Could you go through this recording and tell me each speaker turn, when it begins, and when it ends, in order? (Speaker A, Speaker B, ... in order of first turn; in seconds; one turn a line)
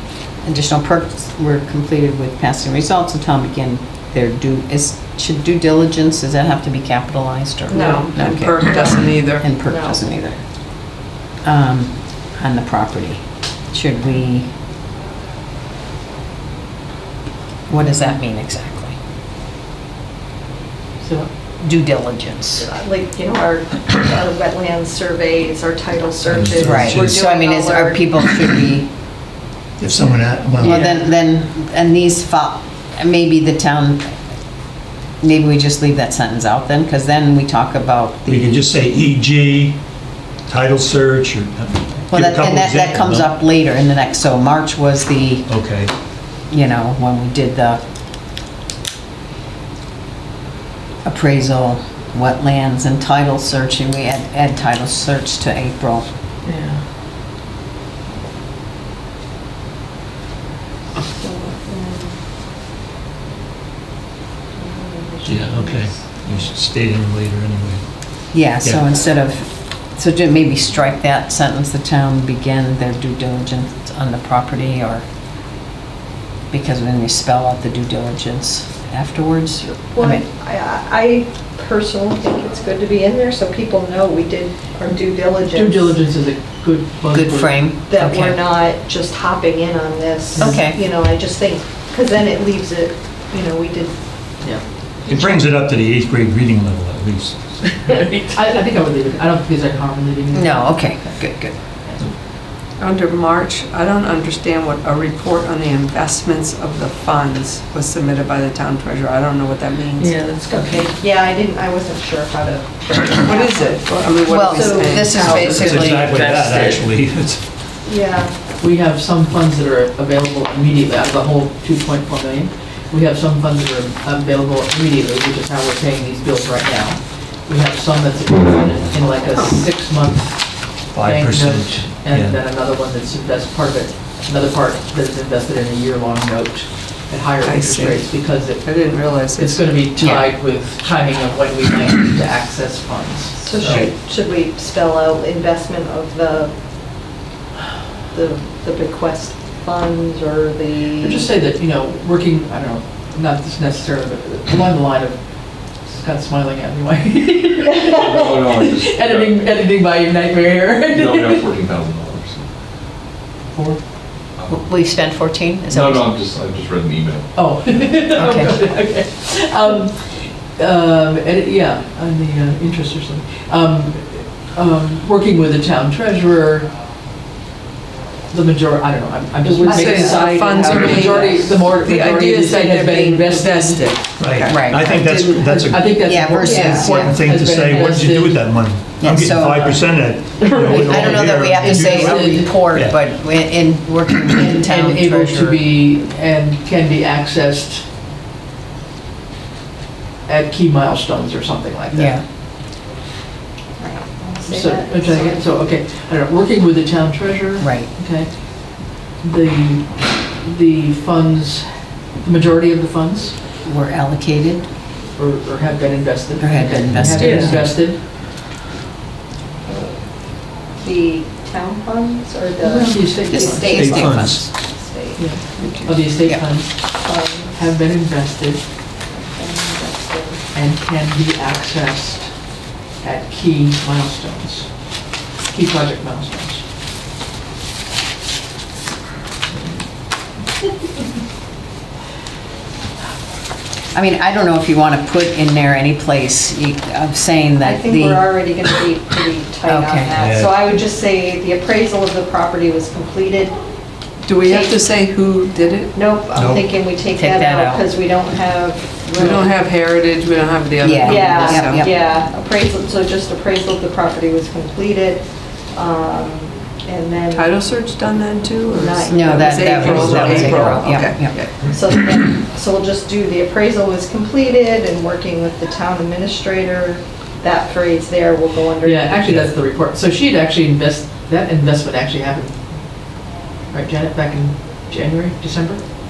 Speaker A: 0.4-10.4
Speaker B: 7.7-8.7
Speaker C: 7.7-9.5
Speaker B: 9.5-10.0
Speaker A: 11.4-14.5
Speaker A: 17.7-19.0
Speaker D: 17.8-18.2
Speaker D: 21.0-21.3
Speaker A: 21.6-22.7
Speaker B: 22.6-28.1
Speaker E: 26.3-27.2
Speaker A: 26.6-29.0
Speaker E: 29.8-31.0
Speaker B: 30.6-31.1
Speaker A: 30.6-34.2
Speaker A: 35.2-38.7
Speaker E: 38.3-39.9
Speaker E: 40.4-43.3
Speaker A: 42.1-45.5
Speaker E: 45.5-45.9
Speaker A: 46.4-47.8
Speaker A: 51.0-56.1
Speaker F: 56.4-56.9
Speaker B: 61.1-62.2
Speaker B: 64.5-66.5
Speaker E: 65.3-68.9
Speaker A: 68.3-75.0
Speaker A: 76.5-80.2
Speaker B: 79.6-86.0
Speaker D: 85.5-87.7
Speaker A: 87.1-88.4
Speaker B: 87.9-94.0
Speaker D: 90.4-90.6
Speaker A: 90.4-90.8
Speaker E: 95.0-97.6
Speaker F: 97.6-98.6
Speaker D: 97.9-102.0
Speaker A: 100.3-101.6
Speaker C: 102.8-110.3
Speaker F: 110.0-111.0
Speaker B: 110.5-115.0
Speaker C: 113.2-116.0
Speaker A: 114.3-116.2
Speaker F: 115.2-116.9
Speaker E: 115.3-117.5
Speaker B: 117.8-118.4
Speaker D: 118.6-143.9
Speaker E: 130.9-132.4
Speaker C: 137.4-139.7
Speaker A: 140.0-140.3
Speaker B: 143.4-146.5
Speaker E: 143.6-143.9
Speaker B: 148.1-151.3
Speaker D: 151.0-161.5
Speaker B: 157.7-158.2
Speaker G: 157.8-159.6
Speaker G: 160.9-162.5
Speaker D: 163.5-163.9
Speaker G: 164.4-164.7
Speaker A: 164.5-166.1
Speaker G: 165.7-167.8
Speaker D: 167.3-176.7
Speaker A: 168.2-168.6
Speaker D: 178.3-184.0
Speaker C: 179.5-185.6
Speaker B: 179.5-181.5
Speaker E: 184.2-193.0
Speaker A: 184.5-185.1
Speaker D: 185.3-188.9
Speaker A: 186.0-187.2
Speaker B: 186.4-187.1
Speaker A: 189.0-190.0
Speaker D: 190.4-192.7
Speaker F: 190.4-190.8
Speaker A: 190.8-195.6
Speaker D: 194.3-197.9
Speaker D: 200.3-202.2
Speaker A: 201.9-202.2
Speaker B: 203.8-205.5
Speaker D: 204.4-213.4
Speaker A: 207.6-207.9
Speaker A: 213.6-214.7
Speaker D: 215.2-218.1
Speaker A: 216.4-217.7
Speaker E: 216.9-217.9
Speaker F: 217.2-217.6
Speaker B: 219.7-225.2
Speaker D: 222.6-223.8
Speaker A: 223.3-224.5
Speaker E: 223.6-224.6
Speaker D: 225.2-228.7
Speaker C: 225.6-225.9
Speaker B: 226.8-227.6
Speaker B: 229.1-230.4
Speaker D: 230.5-236.7
Speaker D: 239.6-239.8
Speaker A: 243.9-248.3
Speaker B: 247.6-253.6
Speaker A: 249.7-250.3
Speaker E: 250.2-250.7
Speaker C: 254.2-256.0
Speaker B: 254.4-254.9
Speaker B: 255.9-259.6
Speaker E: 256.4-256.8
Speaker A: 257.1-257.9
Speaker C: 259.1-261.9
Speaker A: 260.8-262.0
Speaker B: 261.1-267.5
Speaker C: 267.3-271.6
Speaker B: 268.7-279.2
Speaker A: 269.1-271.4
Speaker E: 269.8-270.9
Speaker D: 278.8-283.0
Speaker E: 279.2-279.5
Speaker D: 283.7-285.9